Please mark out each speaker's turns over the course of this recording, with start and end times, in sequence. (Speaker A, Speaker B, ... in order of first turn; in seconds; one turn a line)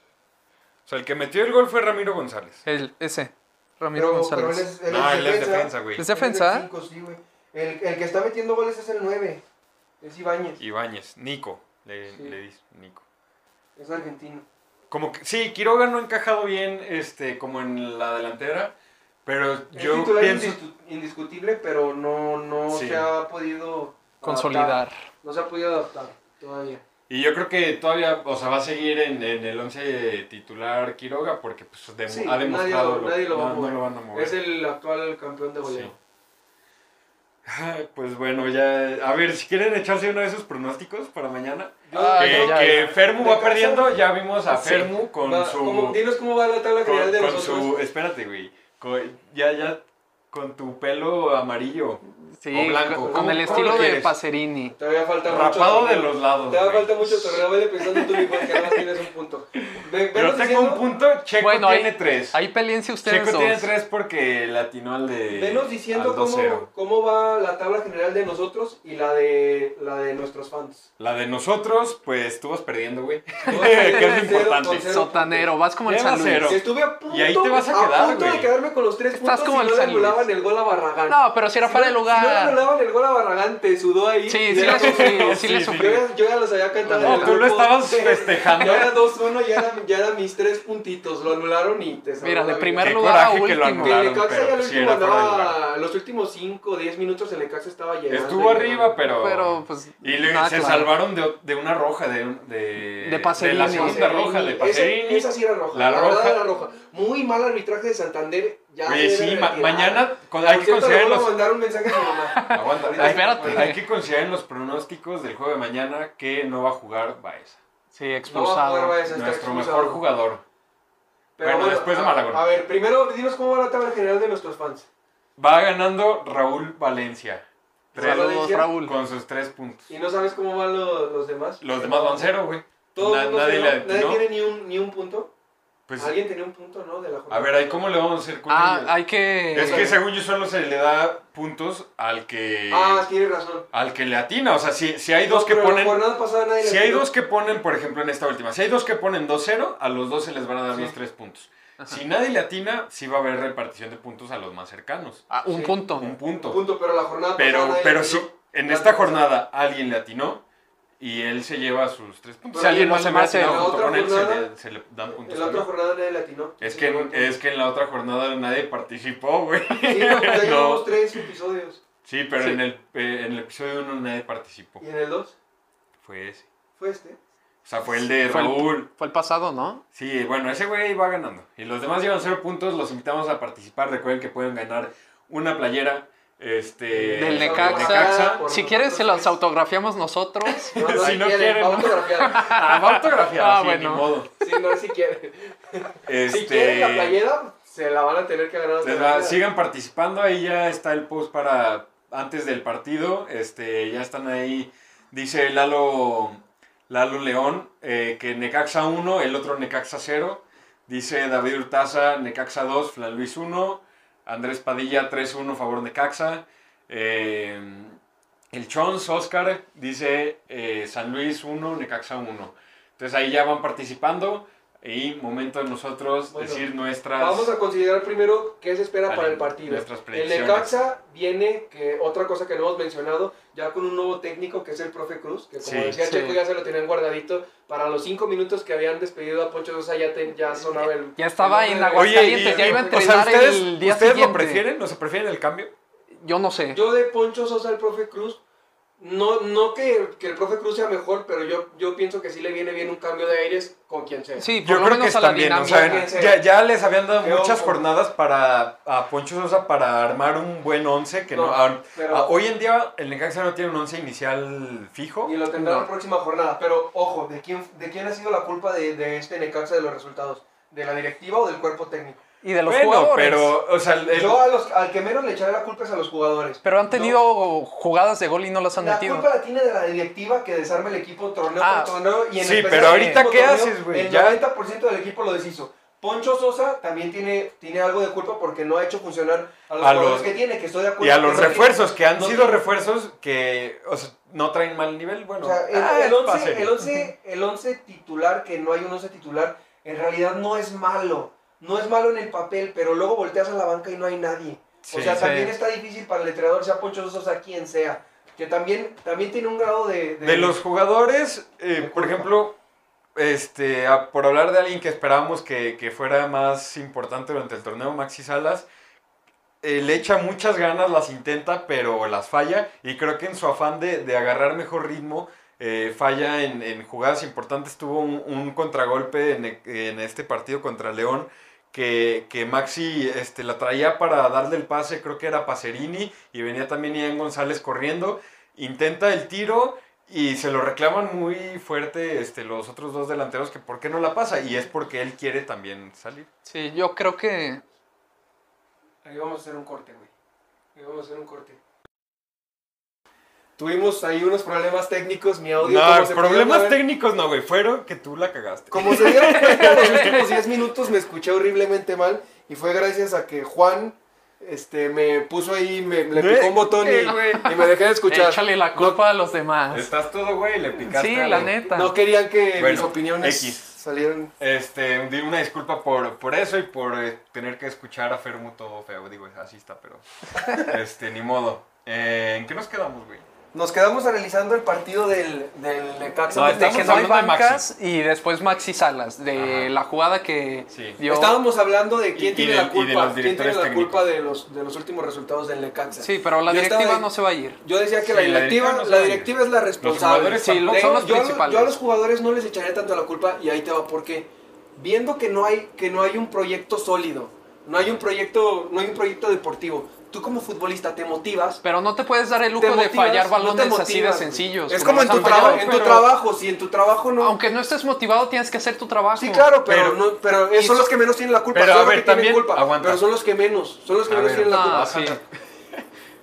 Speaker A: 0.9-2.6
Speaker B: 2.7-4.7
Speaker C: 4.0-9.4
Speaker A: 4.9-6.1
Speaker B: 6.0-6.7
Speaker C: 10.0-10.6
Speaker A: 10.6-13.0
Speaker C: 12.1-12.4
Speaker C: 13.8-14.5
Speaker A: 14.9-20.6
Speaker C: 19.7-26.8
Speaker A: 22.7-23.1
Speaker B: 24.2-24.9
Speaker A: 27.1-34.4
Speaker C: 32.1-36.0
Speaker A: 35.6-35.9
Speaker A: 37.5-46.0
Speaker C: 41.9-43.9
Speaker B: 41.9-42.9
Speaker B: 44.5-44.9
Speaker C: 45.2-47.8
Speaker A: 46.8-54.1
Speaker B: 52.4-54.8
Speaker C: 53.0-53.9
Speaker C: 54.7-60.9
Speaker A: 55.3-57.4
Speaker A: 60.1-62.4
Speaker B: 61.4-63.7
Speaker A: 63.0-66.7
Speaker C: 65.3-70.9
Speaker A: 71.0-74.9
Speaker C: 73.5-75.5
Speaker B: 73.5-76.6
Speaker A: 75.9-78.5
Speaker C: 76.4-92.9
Speaker B: 79.1-80.2
Speaker B: 81.1-82.6
Speaker B: 84.3-86.0
Speaker A: 84.5-86.0
Speaker B: 86.9-87.4
Speaker A: 86.9-89.0
Speaker B: 92.2-94.0
Speaker A: 92.8-95.6
Speaker C: 93.8-98.9
Speaker A: 98.1-106.4
Speaker B: 99.1-100.9
Speaker B: 103.0-104.0
Speaker C: 103.6-113.7
Speaker A: 108.8-111.4
Speaker B: 112.3-113.8
Speaker A: 112.5-117.6
Speaker B: 117.9-119.0
Speaker C: 118.3-120.0
Speaker A: 119.1-120.4
Speaker C: 121.4-124.9
Speaker A: 121.4-122.4
Speaker A: 125.4-129.9
Speaker C: 127.9-128.7
Speaker B: 127.9-128.9
Speaker C: 129.9-132.3
Speaker A: 131.6-134.2
Speaker C: 132.9-135.3
Speaker A: 135.9-136.2
Speaker C: 136.0-137.8
Speaker A: 137.3-138.9
Speaker B: 138.5-139.9
Speaker A: 139.5-143.1
Speaker C: 139.5-140.0
Speaker C: 142.7-143.7
Speaker A: 143.7-146.0
Speaker C: 145.3-147.1
Speaker A: 146.6-155.3
Speaker B: 155.3-156.2
Speaker C: 155.5-155.8
Speaker A: 155.9-156.6
Speaker C: 156.4-159.3
Speaker A: 157.4-160.4
Speaker A: 161.0-165.7
Speaker C: 162.5-164.5
Speaker B: 162.7-163.8
Speaker C: 165.1-167.4
Speaker A: 166.6-171.2
Speaker C: 169.8-171.8
Speaker A: 172.1-174.8
Speaker C: 174.8-175.4
Speaker A: 176.0-176.5
Speaker C: 176.8-177.2
Speaker A: 177.7-178.9
Speaker B: 178.2-179.8
Speaker A: 179.9-188.4
Speaker C: 186.9-189.3
Speaker B: 187.1-191.2
Speaker A: 190.5-194.3
Speaker C: 190.7-192.5
Speaker B: 192.2-194.1
Speaker C: 194.4-199.4
Speaker A: 196.1-197.2
Speaker A: 198.8-218.0
Speaker A: 218.5-227.5
Speaker C: 226.3-243.0
Speaker A: 229.1-230.7
Speaker A: 235.6-236.0
Speaker B: 236.0-236.4
Speaker B: 240.8-244.6
Speaker A: 241.9-245.7
Speaker B: 246.2-246.8
Speaker C: 246.7-248.4
Speaker C: 249.0-254.5
Speaker B: 254.4-256.1
Speaker A: 254.6-265.4
Speaker C: 255.7-256.4
Speaker C: 257.2-257.8
Speaker C: 261.3-262.3
Speaker C: 265.2-272.2
Speaker B: 265.5-265.9
Speaker B: 272.4-273.5
Speaker A: 272.6-274.4
Speaker C: 274.1-277.2
Speaker B: 276.6-279.3
Speaker C: 278.8-292.6
Speaker B: 281.6-281.9
Speaker A: 282.4-284.4
Speaker A: 289.8-290.3
Speaker A: 291.0-296.8
Speaker C: 295.4-310.6
Speaker A: 304.9-305.3
Speaker B: 305.1-305.6
Speaker A: 310.2-312.6
Speaker C: 311.8-312.3
Speaker A: 313.1-318.7
Speaker A: 319.6-346.3
Speaker B: 346.4-347.6
Speaker C: 349.0-350.1
Speaker C: 350.8-351.6
Speaker C: 353.6-356.8
Speaker A: 355.6-360.2
Speaker C: 358.7-369.0
Speaker B: 359.0-360.5
Speaker A: 366.1-367.5
Speaker B: 367.0-369.9
Speaker A: 369.7-371.5
Speaker B: 370.8-371.9
Speaker C: 371.6-374.3
Speaker A: 372.6-373.7
Speaker A: 374.4-383.3
Speaker C: 383.5-387.1
Speaker A: 386.3-387.7
Speaker B: 386.3-391.4
Speaker A: 389.4-389.7
Speaker A: 390.7-391.0
Speaker C: 391.1-397.1
Speaker A: 392.1-394.1
Speaker B: 395.9-397.6
Speaker C: 397.6-411.6
Speaker A: 398.0-401.0
Speaker B: 400.4-401.8
Speaker A: 407.8-408.0
Speaker B: 411.6-415.8
Speaker C: 412.6-417.4
Speaker A: 415.0-416.1
Speaker B: 417.2-419.6
Speaker C: 419.2-425.2
Speaker A: 419.7-420.0
Speaker B: 420.6-420.9
Speaker A: 421.5-423.1
Speaker A: 424.1-425.8
Speaker B: 424.5-425.2